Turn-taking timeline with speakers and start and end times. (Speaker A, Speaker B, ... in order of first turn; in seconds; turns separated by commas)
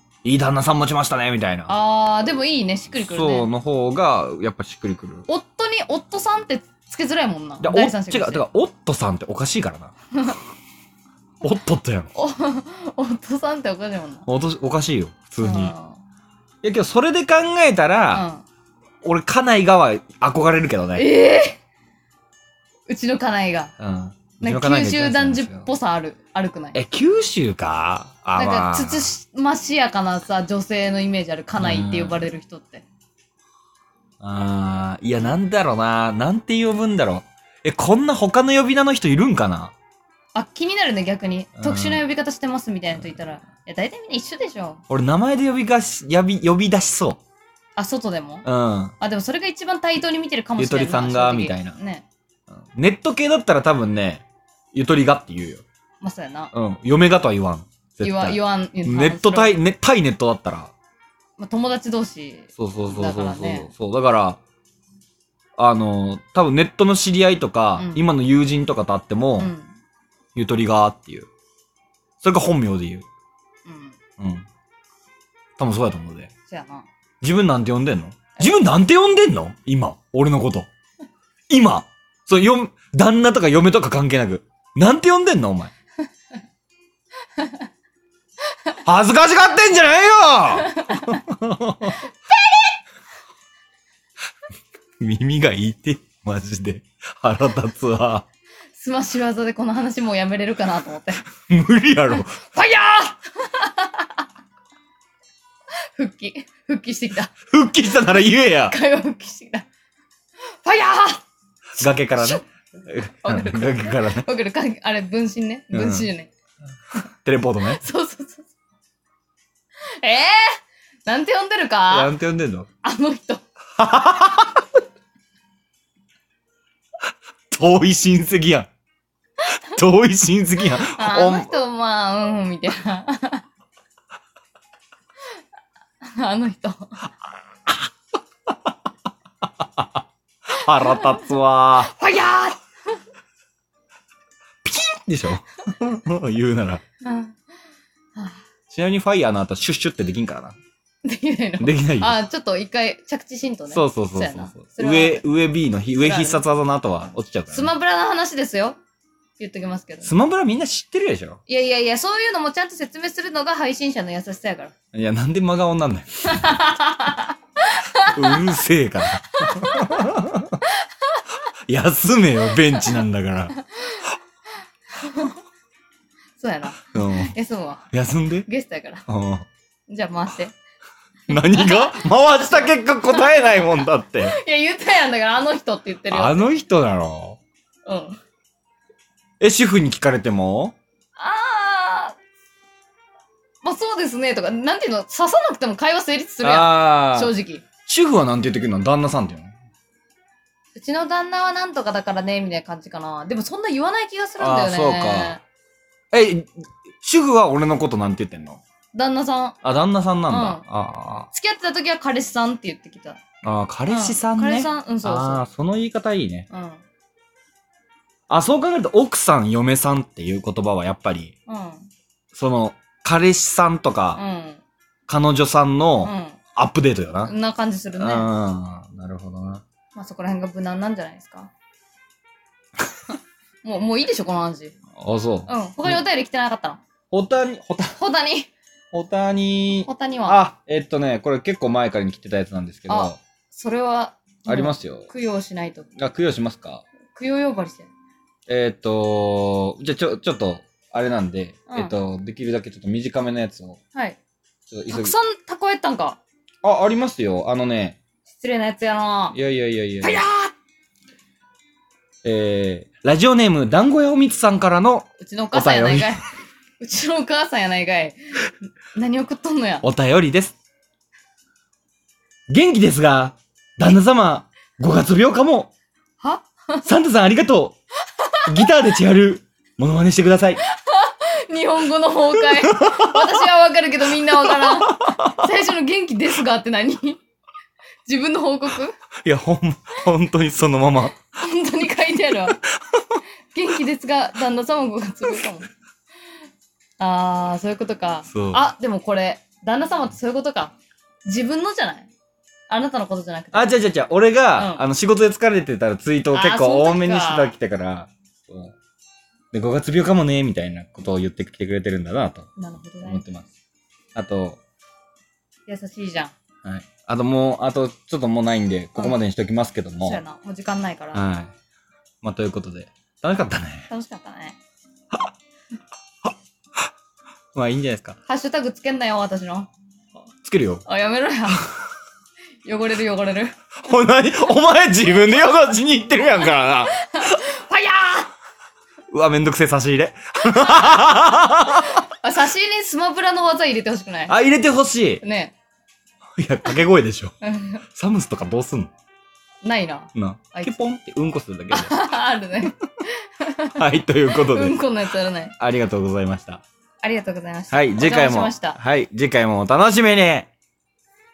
Speaker A: 0.2-1.8, Speaker B: 1.7-3.5, Speaker A: 3.0-5.3, Speaker B: 5.3-8.5, Speaker A: 7.6-9.9, Speaker A: 11.4-12.1, Speaker B: 12.2-14.3, Speaker A: 14.3-15.7, Speaker B: 15.4-16.0, Speaker A: 16.6-18.3, Speaker B: 18.1-18.4, Speaker A: 19.0-21.1, Speaker B: 21.0-21.6, Speaker B: 22.9-23.7, Speaker A: 23.8-25.7, Speaker B: 24.4-26.8, Speaker A: 26.7-29.1, Speaker B: 28.4-32.9, Speaker A: 31.5-32.3, Speaker A: 34.2-39.7, Speaker B: 40.4-44.8, Speaker A: 41.6-42.0, Speaker A: 44.9-47.2, Speaker B: 47.8-48.5, Speaker A: 48.5-49.0, Speaker B: 49.0-52.0, Speaker A: 50.6-51.8, Speaker A: 52.6-55.6, Speaker B: 56.0-56.5, Speaker A: 56.5-60.7, Speaker B: 58.0-59.6, Speaker B: 61.4-63.7, Speaker A: 62.6-64.4, Speaker A: 65.6-69.5, Speaker B: 67.8-68.1, Speaker B: 69.4-69.7, Speaker A: 70.3-71.3, Speaker A: 72.2-73.0, Speaker B: 73.7-74.0, Speaker A: 74.2-74.5, Speaker A: 75.6-76.3, Speaker B: 76.5-76.9, Speaker A: 77.2-80.7, Speaker B: 78.4-78.6, Speaker A: 81.5-85.7, Speaker A: 88.8-92.0, Speaker B: 90.7-91.2, Speaker B: 92.3-92.7, Speaker A: 95.0-98.2, Speaker B: 98.8-101.3, Speaker A: 101.4-102.4, Speaker B: 102.3-104.1, Speaker B: 106.0-107.3, Speaker A: 107.5-108.8, Speaker B: 108.7-109.7, Speaker B: 110.6-111.2, Speaker A: 111.8-114.3, Speaker B: 111.8-112.4, Speaker B: 113.2-116.3, Speaker A: 115.7-116.1, Speaker A: 117.2-117.8, Speaker B: 117.6-118.5, Speaker B: 120.0-122.1, Speaker A: 121.9-122.7, Speaker B: 122.8-123.4, Speaker A: 123.8-124.7, Speaker A: 127.5-128.7, Speaker A: 129.7-131.6, Speaker B: 130.7-133.4, Speaker B: 136.1-137.0, Speaker A: 139.6-140.0, Speaker A: 140.5-141.9, Speaker B: 140.9-141.2, Speaker B: 141.8-142.6, Speaker A: 144.6-146.8, Speaker B: 147.0-147.4, Speaker A: 148.7-150.6, Speaker B: 151.0-155.2, Speaker A: 151.6-152.2, Speaker A: 153.7-157.7, Speaker B: 156.0-156.4, Speaker B: 157.5-158.8, Speaker B: 159.4-160.1, Speaker A: 160.0-161.4, Speaker B: 161.5-164.7, Speaker A: 164.9-166.5, Speaker B: 166.3-168.4, Speaker A: 168.1-170.6, Speaker B: 169.4-170.0, Speaker A: 171.7-173.6, Speaker B: 173.8-174.0, Speaker B: 175.0-175.3, Speaker B: 176.4-177.9, Speaker A: 176.8-177.3, Speaker A: 177.9-178.5, Speaker B: 178.4-179.0, Speaker A: 179.1-179.5, Speaker B: 179.9-180.6, Speaker A: 181.3-184.4, Speaker B: 181.3-186.5, Speaker A: 186.1-187.4, Speaker B: 187.9-188.2, Speaker A: 189.4-190.8, Speaker B: 191.2-192.2, Speaker B: 193.6-197.6, Speaker A: 196.4-197.3, Speaker A: 197.9-199.5, Speaker B: 200.8-205.4, Speaker A: 204.4-205.4, Speaker A: 206.1-208.6, Speaker B: 208.9-209.6, Speaker A: 209.6-211.3, Speaker B: 210.3-210.6, Speaker B: 211.3-213.2, Speaker A: 213.4-216.5, Speaker B: 213.9-215.4, Speaker B: 216.5-216.8, Speaker A: 218.3-221.3, Speaker B: 221.5-221.9, Speaker A: 222.3-224.2, Speaker B: 224.2-224.6, Speaker A: 225.1-227.3, Speaker B: 226.0-226.4, Speaker B: 227.2-228.3, Speaker A: 228.0-229.6, Speaker B: 229.9-231.5, Speaker B: 233.6-234.7, Speaker A: 235.0-236.0, Speaker B: 235.5-236.8, Speaker A: 237.1-238.0, Speaker B: 238.0-238.5, Speaker A: 238.9-243.2, Speaker B: 239.9-240.4, Speaker B: 242.9-245.9, Speaker A: 244.5-245.1, Speaker A: 246.0-246.9, Speaker B: 247.1-247.9, Speaker A: 248.5-253.8, Speaker B: 251.7-251.9, Speaker A: 254.7-255.1, Speaker B: 254.9-256.2, Speaker A: 256.6-258.0, Speaker B: 258.3-259.4, Speaker A: 259.3-260.2, Speaker B: 260.0-260.5, Speaker A: 262.2-266.2, Speaker B: 265.2-266.3, Speaker B: 266.8-268.2, Speaker B: 268.9-269.9, Speaker A: 269.8-270.6, Speaker A: 272.5-275.7, Speaker B: 276.2-276.9, Speaker A: 276.8-277.8, Speaker A: 278.5-280.6, Speaker B: 280.7-287.2, Speaker A: 282.4-283.4, Speaker A: 284.4-285.4, Speaker B: 288.1-289.0, Speaker A: 289.2-291.2, Speaker B: 291.3-292.6, Speaker A: 292.9-293.2, Speaker B: 293.5-295.7, Speaker B: 297.0-302.1, Speaker A: 298.3-298.7, Speaker B: 302.7-303.7, Speaker A: 303.5-308.8, Speaker B: 304.6-304.8, Speaker B: 306.3-307.6, Speaker A: 309.5-312.5, Speaker B: 312.6-313.2, Speaker A: 313.0-313.5, Speaker A: 314.1-314.6, Speaker B: 315.7-316.3, Speaker A: 316.6-320.2, Speaker B: 320.0-321.2, Speaker A: 321.1-321.5, Speaker A: 322.2-323.9, Speaker B: 323.9-324.6, Speaker A: 327.5-328.2, Speaker B: 328.3-329.7, Speaker A: 330.4-330.8, Speaker B: 330.9-331.7, Speaker B: 332.6-333.6, Speaker A: 333.9-336.9, Speaker B: 336.9-338.3, Speaker A: 339.1-342.0, Speaker B: 340.5-341.0, Speaker B: 341.8-344.3, Speaker A: 344.3-345.2, Speaker B: 345.2-345.5, Speaker A: 346.4-347.3, Speaker B: 347.4-347.8, Speaker A: 347.9-348.9, Speaker B: 349.6-350.8, Speaker A: 350.1-352.0, Speaker B: 351.7-355.5, Speaker A: 353.8-354.8, Speaker A: 355.6-356.6, Speaker B: 357.0-358.8, Speaker A: 357.7-360.5